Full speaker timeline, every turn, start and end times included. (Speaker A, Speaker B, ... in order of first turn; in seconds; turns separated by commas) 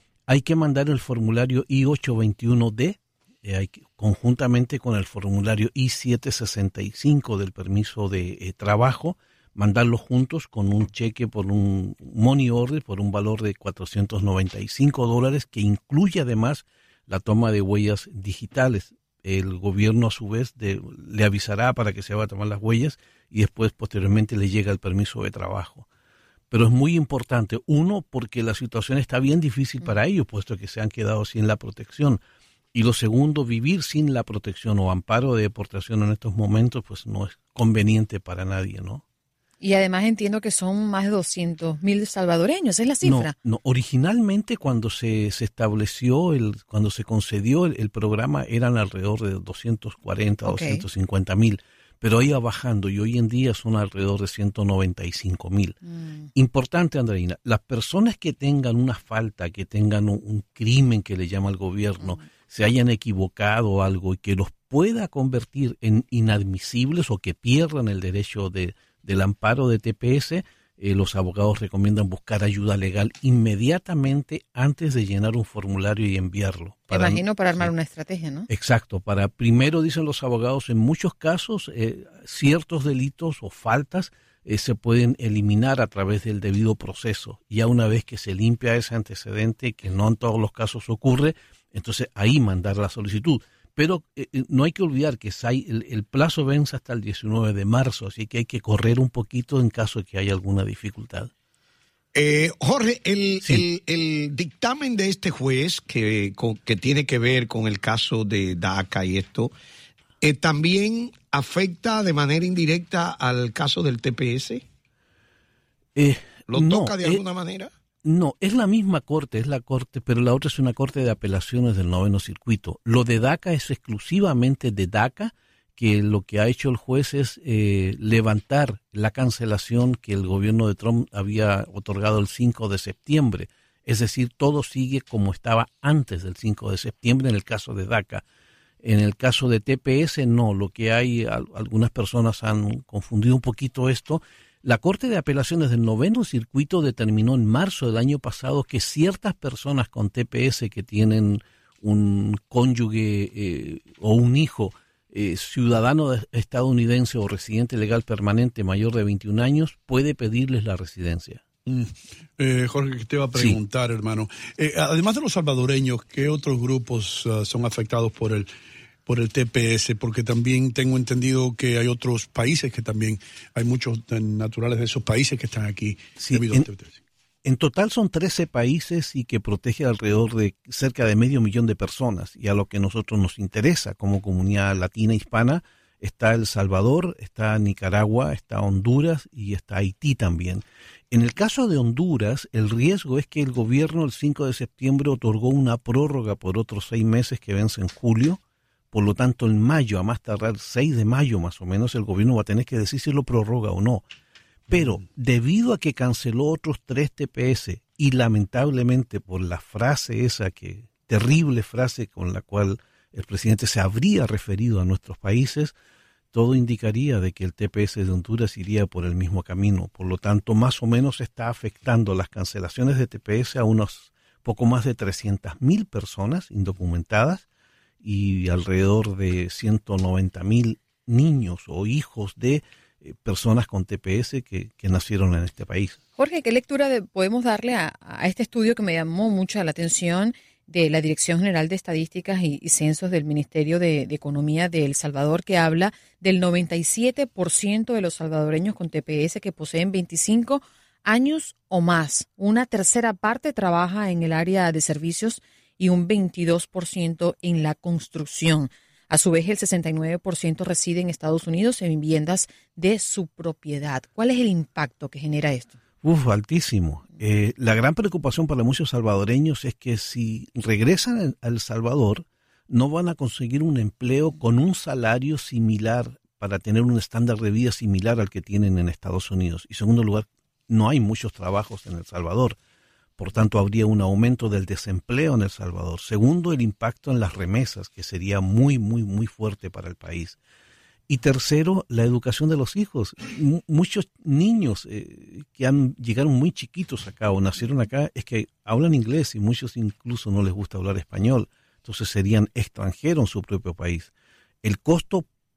Speaker A: 0.3-25.9, Speaker A: 26.5-32.2, Speaker A: 32.7-39.0, Speaker B: 39.6-43.2, Speaker A: 43.0-55.8, Speaker A: 56.3-77.7, Speaker B: 77.0-78.5, Speaker A: 78.5-101.3, Speaker C: 102.1-109.5, Speaker C: 110.2-114.6, Speaker A: 115.9-117.2, Speaker C: 116.5-117.7, Speaker A: 118.0-138.2, Speaker A: 138.8-161.4, Speaker D: 161.7-168.5, Speaker D: 169.1-177.0, Speaker A: 176.2-176.7, Speaker A: 177.4-198.4, Speaker A: 198.9-204.1, Speaker A: 204.7-215.7, Speaker A: 216.3-227.4, Speaker A: 228.0-236.0, Speaker B: 236.2-265.8, Speaker A: 266.0-282.6, Speaker A: 283.2-290.4, Speaker A: 291.1-304.1, Speaker A: 304.6-305.2